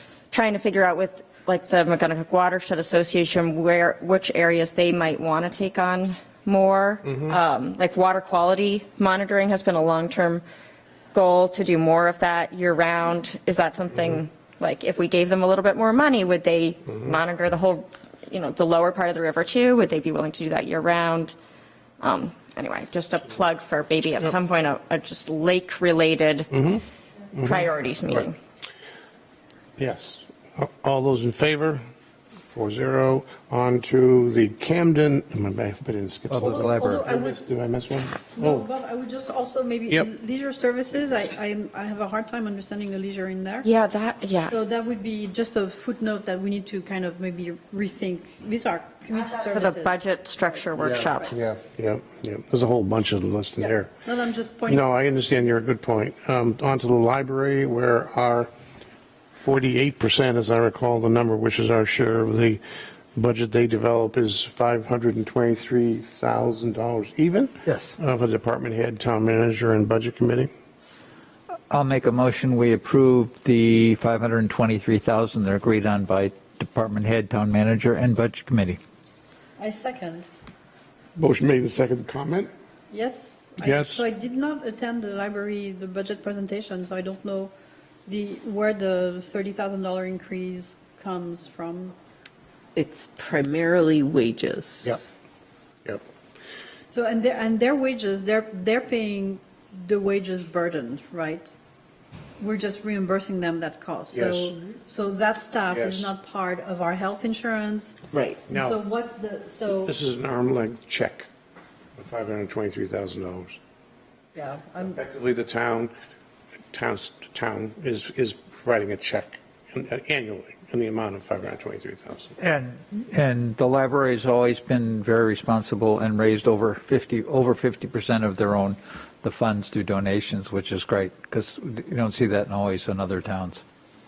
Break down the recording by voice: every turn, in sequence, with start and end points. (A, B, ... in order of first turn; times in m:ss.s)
0:00.3-0:10.4 A
0:07.1-0:07.4 B
0:11.1-0:21.3 A
0:22.0-0:26.5 A
0:26.5-0:26.8 B
0:27.3-0:28.2 B
0:27.4-0:28.4 A
0:29.8-0:31.8 B
0:32.5-0:38.6 B
0:36.3-0:37.0 C
0:36.4-0:37.4 D
0:38.3-0:43.7 D
0:43.6-0:44.6 A
0:44.4-0:51.2 D
0:49.1-0:51.3 A
0:50.8-0:53.9 B
0:54.0-0:54.8 D
0:54.7-0:58.5 B
0:59.4-1:02.6 B
1:03.2-1:10.5 B
1:07.7-1:07.9 C
1:11.7-1:18.8 C
1:19.6-1:20.3 D
1:21.2-1:22.5 B
1:22.9-1:27.5 D
1:23.6-1:24.0 B
1:28.1-1:32.0 D
1:32.8-1:35.1 E
1:36.9-1:41.5 D
1:42.4-1:48.0 D
1:44.1-1:44.6 B
1:45.7-1:46.1 B
1:48.1-1:48.4 E
1:48.5-1:49.9 D
1:48.5-1:48.8 B
1:49.8-1:51.3 B
1:52.0-1:53.6 B
1:54.4-1:55.0 D
1:54.8-1:55.9 B
1:56.7-2:02.3 B
2:02.4-2:13.6 C